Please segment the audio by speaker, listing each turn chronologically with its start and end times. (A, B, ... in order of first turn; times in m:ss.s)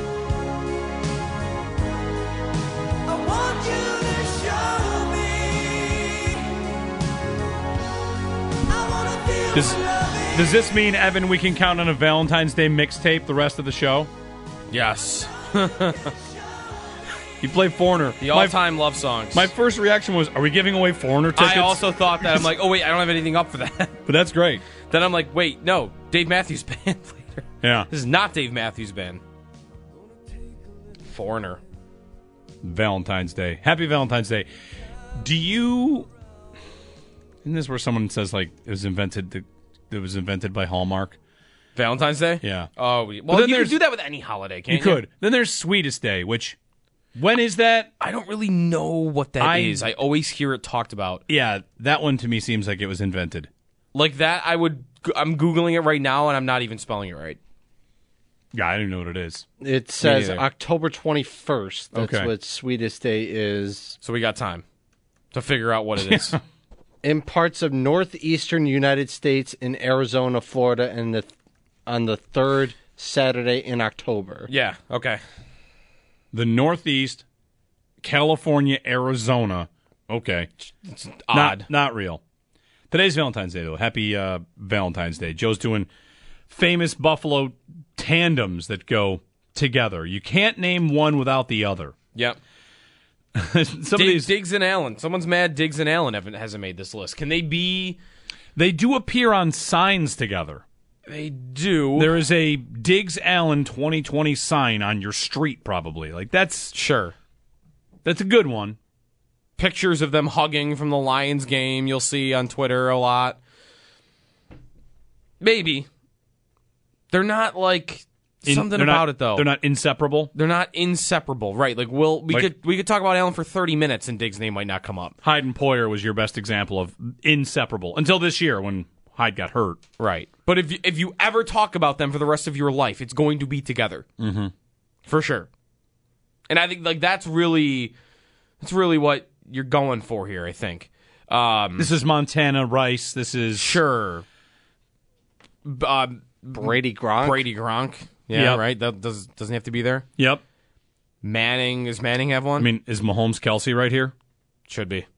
0:03.7-0:04.8 A
0:09.5-0:14.1 B
0:14.7-0:16.1 A
0:17.4-0:18.6 B
0:18.2-0:19.5 A
0:19.3-0:22.4 B
0:21.3-0:24.0 A
0:24.0-0:24.6 B
0:24.8-0:29.2 A
0:27.6-0:27.9 B
0:31.0-0:31.6 A
0:32.6-0:34.5 B
0:35.2-0:36.1 B
0:37.4-0:41.2 B
0:41.7-0:45.0 A
0:42.4-0:42.7 B
0:43.3-0:43.8 B
0:44.7-0:46.6 B
0:47.2-0:47.9 B
0:48.0-0:51.2 A
0:49.4-0:49.9 B
0:51.3-0:53.5 B
0:53.9-0:57.4 A
0:58.5-0:59.4 B
0:59.6-1:04.0 C
1:00.0-1:00.4 A
1:01.9-1:02.3 B
1:04.0-1:04.6 A
1:05.3-1:06.4 A
1:06.0-1:06.4 B
1:07.0-1:11.3 C
1:11.8-1:14.5 C
1:14.5-1:15.2 A
1:16.3-1:17.2 B
1:18.0-1:20.5 B
1:20.8-1:21.7 A
1:21.3-1:22.2 B
1:22.9-1:25.9 B
1:26.5-1:31.9 B
1:33.4-1:34.3 B
1:33.9-1:38.0 A
1:38.6-1:40.6 B
1:41.0-1:42.2 A
1:42.0-1:46.7 B
1:46.7-1:47.1 A
1:48.0-1:48.8 B
1:49.6-1:53.4 A
1:55.4-1:55.9 A
1:57.1-1:59.5 A
1:58.4-2:00.3 B
2:00.3-2:05.1 A
2:05.2-2:09.8 B
2:10.0-2:14.0 A
2:14.2-2:14.5 B
2:15.0-2:15.5 A
2:16.5-2:17.9 A
2:18.6-2:21.9 A
2:21.8-2:23.8 B
2:23.5-2:24.2 A
2:25.6-2:30.0 A
2:26.6-2:27.5 C
2:28.3-2:28.6 B
2:30.2-2:30.4 B
2:31.2-2:32.7 A
2:32.6-2:34.1 B
2:34.7-2:35.0 A